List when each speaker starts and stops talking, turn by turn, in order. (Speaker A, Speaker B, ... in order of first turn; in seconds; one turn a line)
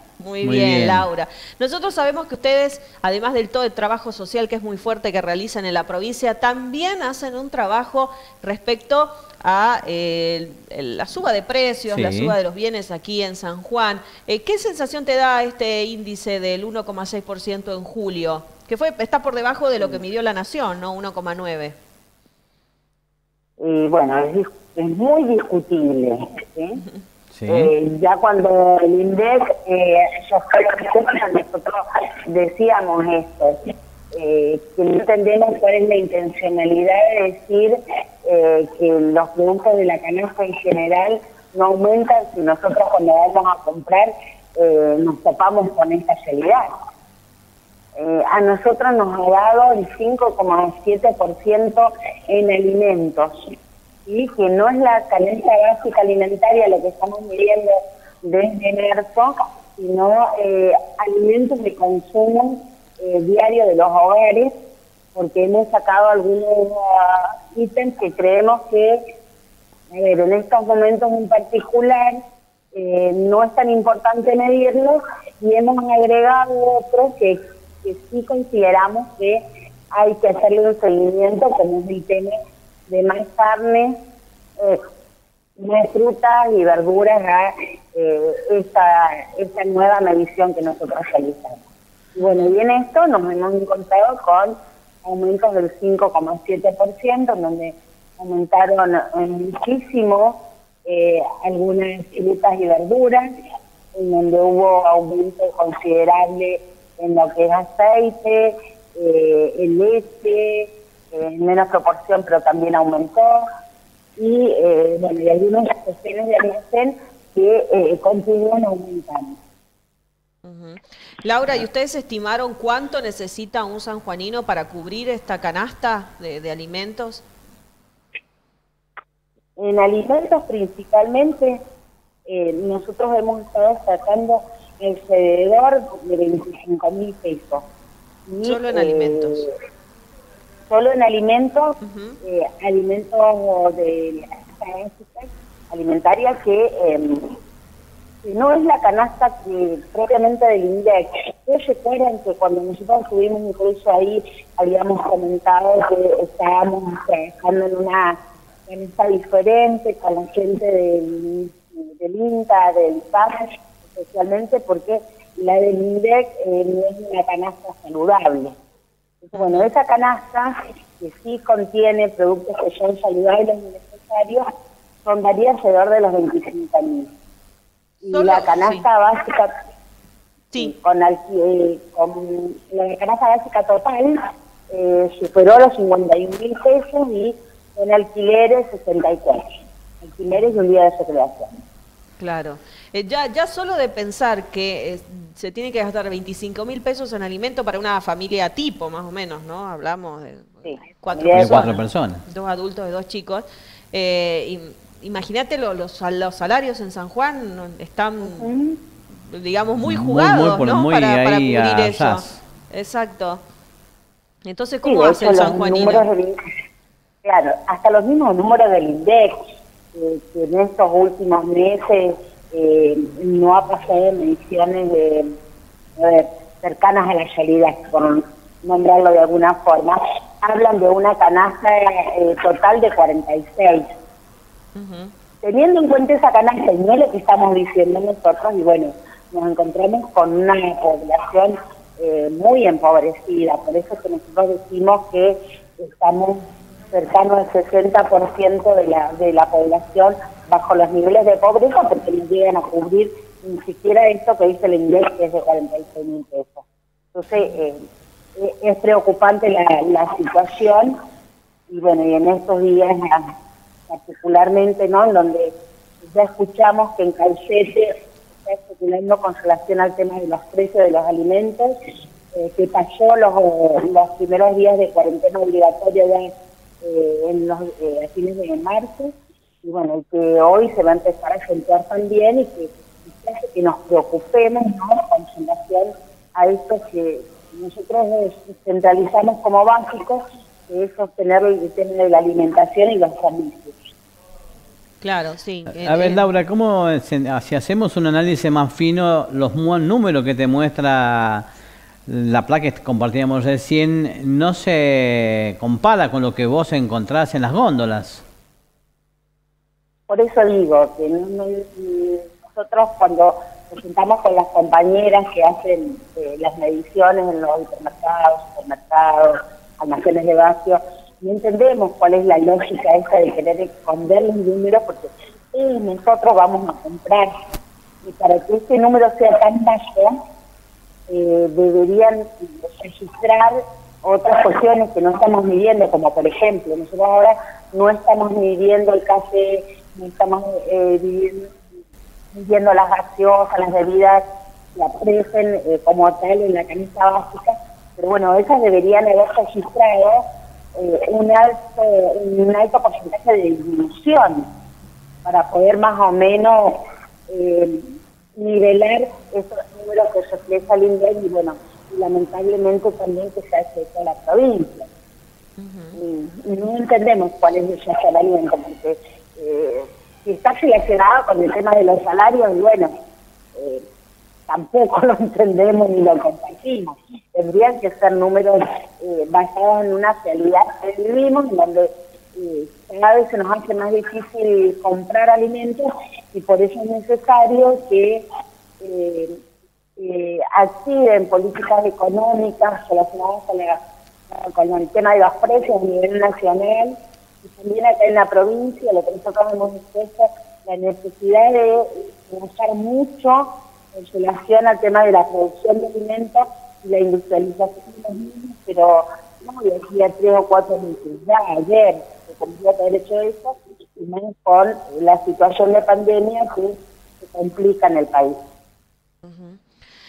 Speaker A: 0.2-21.8
Speaker B: 0.4-1.1
Speaker B: 11.9-12.4
Speaker C: 23.6-26.8
Speaker B: 27.3-27.7
Speaker C: 27.5-33.6
Speaker C: 34.1-46.6
Speaker C: 48.0-53.3
Speaker C: 54.1-64.5
Speaker C: 65.2-69.0
Speaker C: 69.9-72.2
Speaker C: 72.7-82.4
Speaker C: 82.9-84.0
Speaker C: 85.6-91.6
Speaker C: 92.2-103.3
Speaker A: 92.2-92.5
Speaker C: 104.0-113.5
Speaker C: 114.2-119.3
Speaker A: 120.4-127.2
Speaker C: 129.6-131.6
Speaker C: 132.3-137.7
Speaker C: 138.3-139.6
Speaker A: 138.4-139.4
Speaker C: 140.7-147.3
Speaker A: 141.8-142.2
Speaker C: 148.2-168.6
Speaker C: 169.2-174.4
Speaker A: 169.3-169.7
Speaker C: 175.1-177.1
Speaker C: 178.0-179.5
Speaker A: 178.1-178.8
Speaker C: 180.6-184.2
Speaker C: 184.7-189.4
Speaker C: 190.0-191.5
Speaker A: 192.2-208.5
Speaker C: 200.7-201.7
Speaker B: 201.3-202.2
Speaker C: 208.2-208.8
Speaker A: 209.2-213.4
Speaker B: 209.8-212.4
Speaker A: 214.4-216.1
Speaker C: 214.8-216.3
Speaker C: 217.2-219.3
Speaker C: 219.9-225.3
Speaker C: 226.0-233.8
Speaker A: 234.8-235.1
Speaker C: 235.4-257.8
Speaker A: 257.3-257.6
Speaker C: 258.4-260.9
Speaker C: 261.7-263.3
Speaker C: 263.9-271.8
Speaker C: 272.3-276.3
Speaker C: 276.8-293.7
Speaker A: 295.0-296.3
Speaker B: 295.7-301.5
Speaker B: 302.1-308.2
Speaker C: 310.1-327.3
Speaker C: 328.0-330.1
Speaker C: 331.1-341.6
Speaker C: 342.3-344.2
Speaker C: 344.8-350.2
Speaker C: 350.8-354.5
Speaker C: 355.2-356.8
Speaker C: 357.3-364.9
Speaker A: 365.6-366.0
Speaker C: 365.9-372.9
Speaker C: 373.6-373.8
Speaker C: 374.5-388.2
Speaker C: 388.8-389.4
Speaker C: 390.0-418.4
Speaker A: 419.2-419.6